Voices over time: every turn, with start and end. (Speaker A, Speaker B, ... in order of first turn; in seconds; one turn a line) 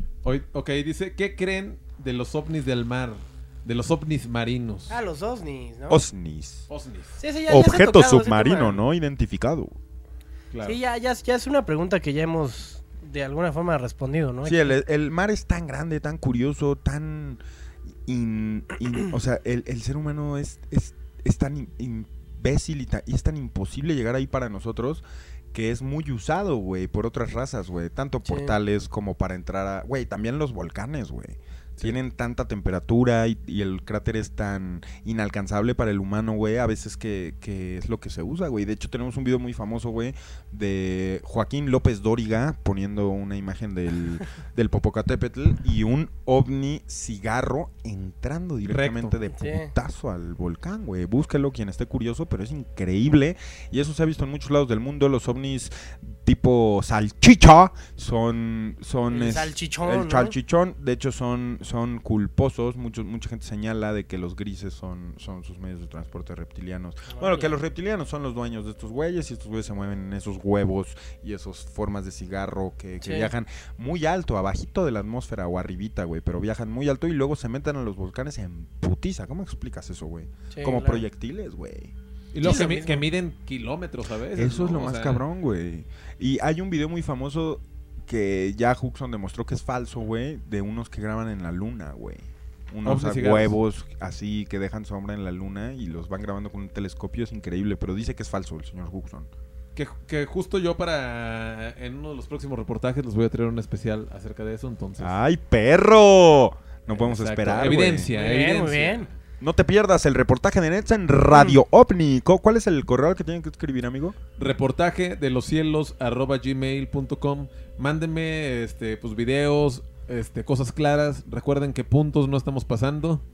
Speaker A: 0.2-5.0
Speaker B: 4.9-6.0
Speaker C: 5.9-6.7
Speaker A: 6.7-7.2
Speaker B: 7.2-8.8
Speaker C: 7.5-9.7
Speaker A: 10.5-10.8
Speaker B: 10.6-14.7
Speaker C: 14.4-17.4
Speaker C: 18.1-82.7
Speaker B: 28.2-28.5
Speaker A: 48.7-49.1
Speaker B: 49.3-49.7
Speaker B: 59.1-60.3
Speaker B: 67.1-67.5
Speaker B: 73.0-73.3
Speaker B: 80.5-81.0
Speaker A: 82.3-85.2
Speaker B: 82.4-83.0
Speaker C: 84.3-99.3
Speaker A: 92.8-93.5
Speaker A: 99.8-105.1
Speaker C: 105.0-108.1
Speaker A: 106.9-109.2
Speaker B: 108.0-109.1
Speaker C: 109.4-114.2
Speaker A: 114.4-123.2